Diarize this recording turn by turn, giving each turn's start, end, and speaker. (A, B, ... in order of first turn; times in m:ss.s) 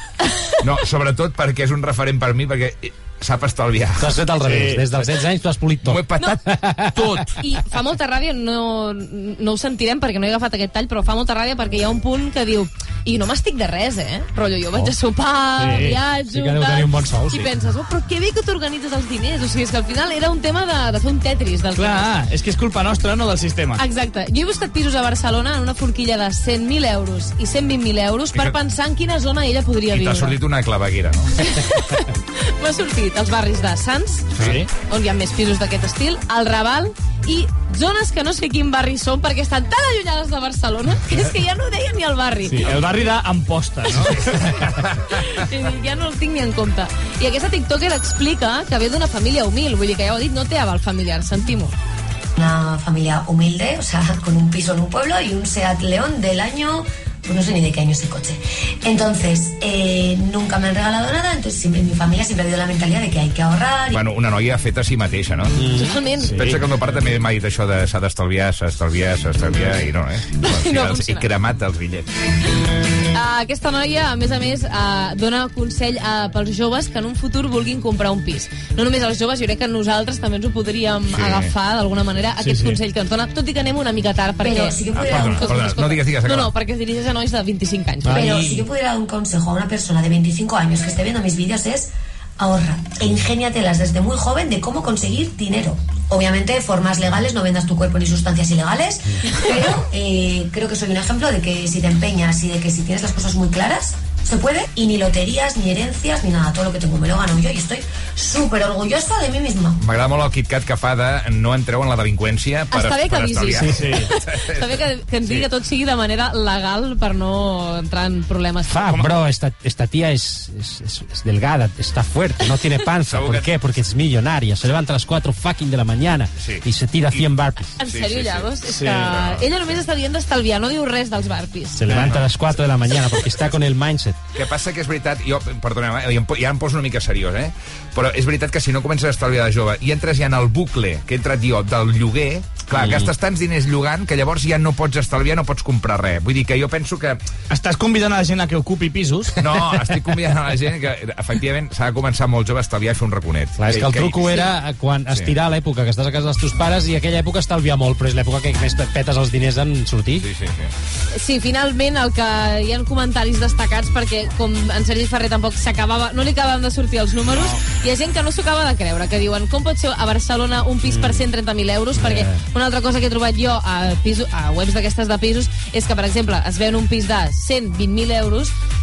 0:00.6-0:04.1 A
0:04.0-0:07.3 B
0:04.4-0:04.9 C
0:05.8-0:06.4 A
0:07.4-0:22.1 D
0:15.6-0:16.0 C
0:15.7-0:17.5 B
0:21.8-0:23.8 C
0:23.8-0:30.4 D
0:29.9-0:31.4 A
0:31.4-0:42.7 D
0:34.4-0:34.7 C
0:34.4-0:34.6 A
0:42.6-0:44.3 C
0:44.0-0:45.2 A
0:45.2-0:51.7 D
0:52.4-1:04.0 E
1:03.9-1:05.6 A
1:05.6-1:06.6 B
1:05.8-1:06.5 D
1:06.2-1:12.1 A
1:10.4-1:11.2 D
1:13.1-1:28.6 D
1:21.1-1:21.5 A
1:22.4-1:22.8 C
1:24.4-1:25.6 E
1:24.9-1:26.5 A
1:28.0-1:28.5 B
1:28.1-1:49.8 E
1:49.8-1:55.4 A
1:52.7-1:58.9 D
1:53.6-1:53.9 B
1:53.7-1:54.0 C
1:58.7-2:07.8 B
2:03.1-2:03.5 A
2:06.4-2:08.5 A
2:07.8-2:11.9 D
2:08.7-2:09.1 C
2:09.1-2:09.4 A
2:11.8-2:14.2 B
2:11.9-2:12.2 C
2:12.0-2:12.2 A
2:14.4-2:27.2 A
2:27.5-2:29.4 C
2:29.4-2:34.5 A
2:33.6-2:40.3 B
2:35.1-2:35.4 A
2:40.2-2:40.7 A
2:41.1-2:58.5 D
2:50.9-2:51.2 B
2:52.0-2:52.4 B